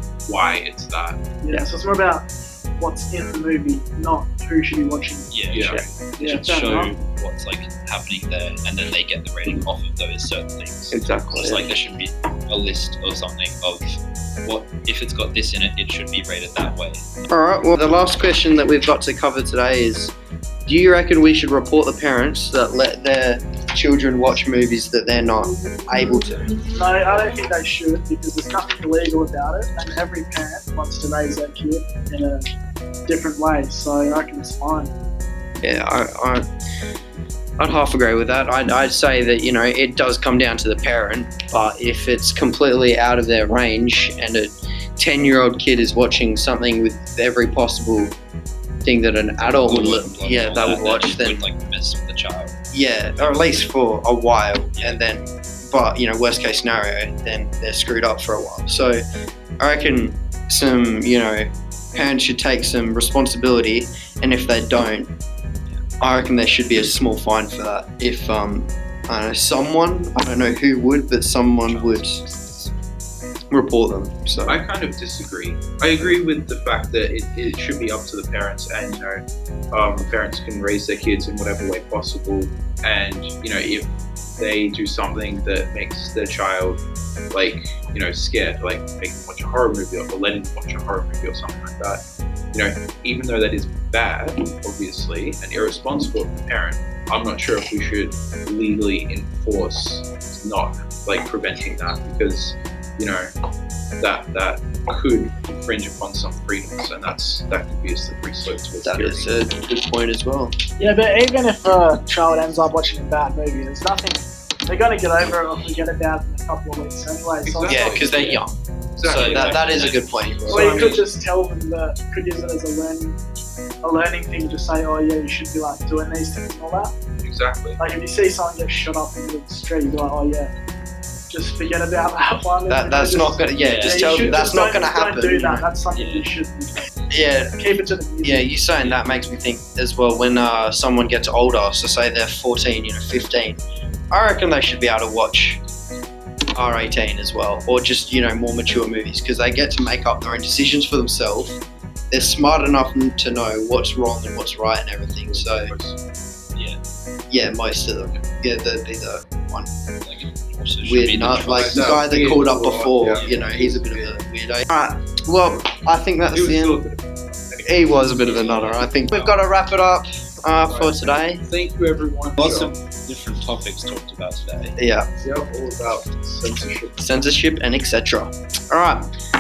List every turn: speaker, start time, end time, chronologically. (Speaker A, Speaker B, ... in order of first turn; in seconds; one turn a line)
Speaker A: 0.3-1.2
Speaker B: 1.4-2.3
Speaker B: 2.8-5.3
Speaker C: 5.3-17.3
Speaker A: 5.5-5.8
Speaker B: 6.2-7.0
Speaker D: 10.9-11.7
Speaker D: 17.3-20.1
Speaker D: 20.6-26.5
Speaker B: 26.7-32.4
Speaker B: 33.0-34.9
Speaker D: 35.6-36.5
Speaker D: 37.6-48.1
Speaker D: 48.8-51.4
Speaker C: 49.4-52.6
Speaker D: 52.7-59.0
Speaker D: 59.6-65.1
Speaker D: 66.0-72.2
Speaker C: 71.6-72.7
Speaker D: 73.5-74.6
Speaker A: 74.4-86.8
Speaker A: 87.3-103.3
Speaker A: 104.0-109.3
Speaker D: 108.8-110.5
Speaker B: 110.8-118.0
Speaker A: 117.4-118.4
Speaker D: 117.7-120.9
Speaker A: 119.0-121.1
Speaker C: 119.1-120.0
Speaker B: 120.5-123.2
Speaker B: 123.8-126.9
Speaker A: 127.2-127.8
Speaker B: 127.8-130.5
Speaker B: 131.3-136.8
Speaker D: 132.7-135.7
Speaker C: 133.6-134.3
Speaker C: 135.9-136.3
Speaker D: 137.1-137.6
Speaker B: 137.6-138.6
Speaker D: 138.2-143.6
Speaker D: 144.1-145.6
Speaker D: 146.5-151.6
Speaker D: 152.1-155.7
Speaker A: 155.3-156.0
Speaker D: 157.3-159.7
Speaker C: 160.0-162.2
Speaker D: 160.8-166.8
Speaker A: 161.6-164.2
Speaker C: 163.1-163.4
Speaker A: 166.3-168.7
Speaker D: 167.6-171.4
Speaker C: 168.5-169.4
Speaker A: 170.7-172.7
Speaker C: 172.4-174.8
Speaker D: 174.8-175.1
Speaker A: 175.2-177.0
Speaker D: 177.0-179.1